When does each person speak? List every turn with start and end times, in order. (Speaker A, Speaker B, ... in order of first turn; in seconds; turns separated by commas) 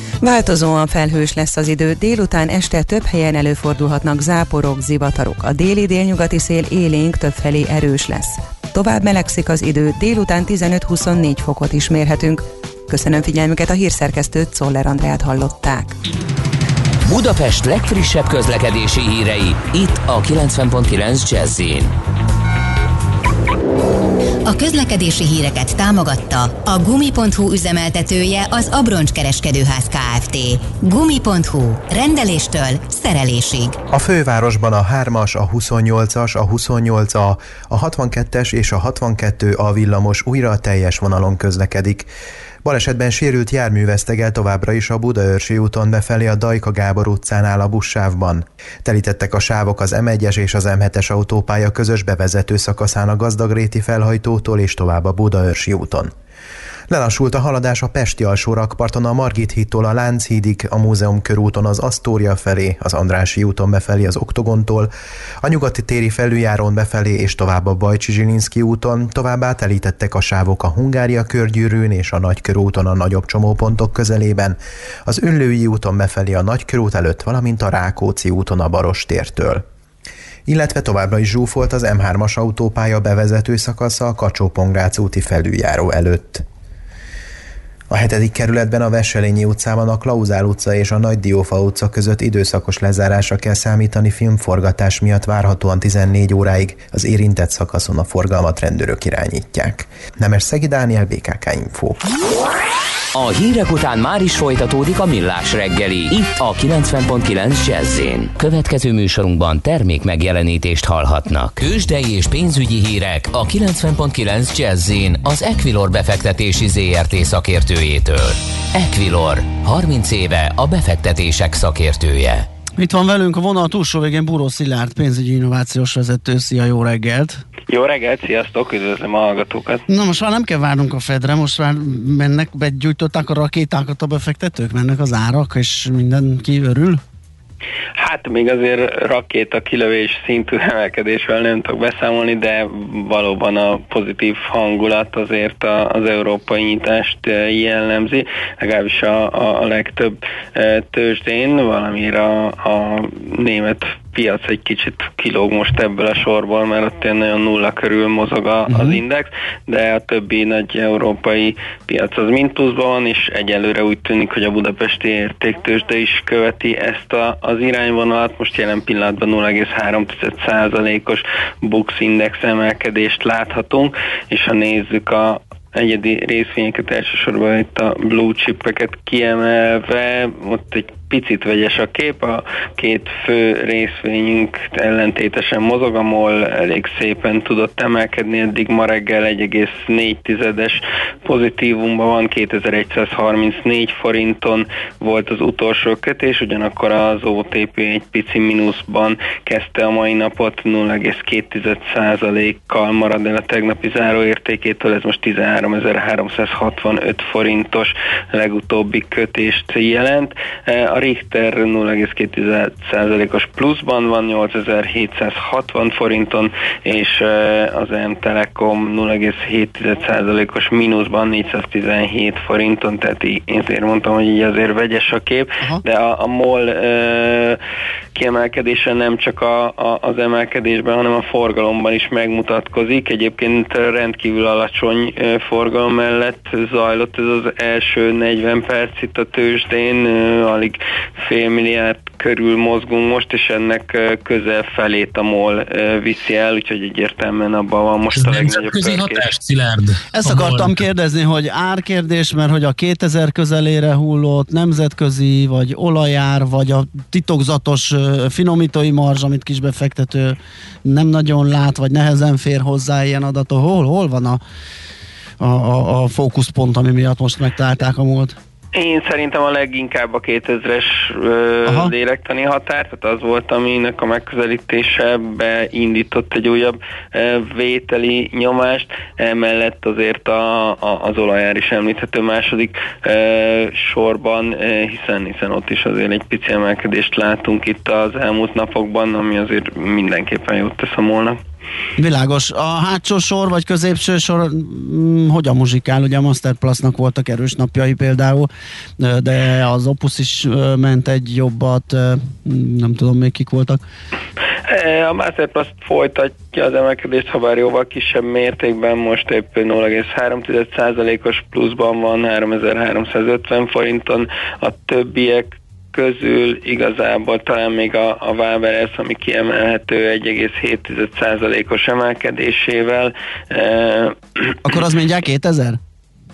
Speaker A: 0.2-16.0, Speaker B: 17.1-21.9, Speaker C: 24.4-33.8, Speaker D: 33.9-42.1, Speaker D: 42.6-56.1, Speaker D: 56.9-79.6, Speaker D: 80.5-86.4, Speaker D: 87.9-102.0, Speaker B: 103.1-122.5, Speaker E: 122.8-127.4, Speaker F: 127.7-129.8, Speaker E: 129.9-137.0, Speaker F: 138.0-227.6, Speaker E: 158.7-159.0, Speaker F: 228.1-249.3, Speaker G: 248.1-250.8, Speaker E: 250.1-264.4, Speaker E: 265.4-268.4, Speaker F: 268.7-291.4, Speaker E: 292.0-303.8, Speaker F: 304.7-324.2, Speaker E: 324.6-325.8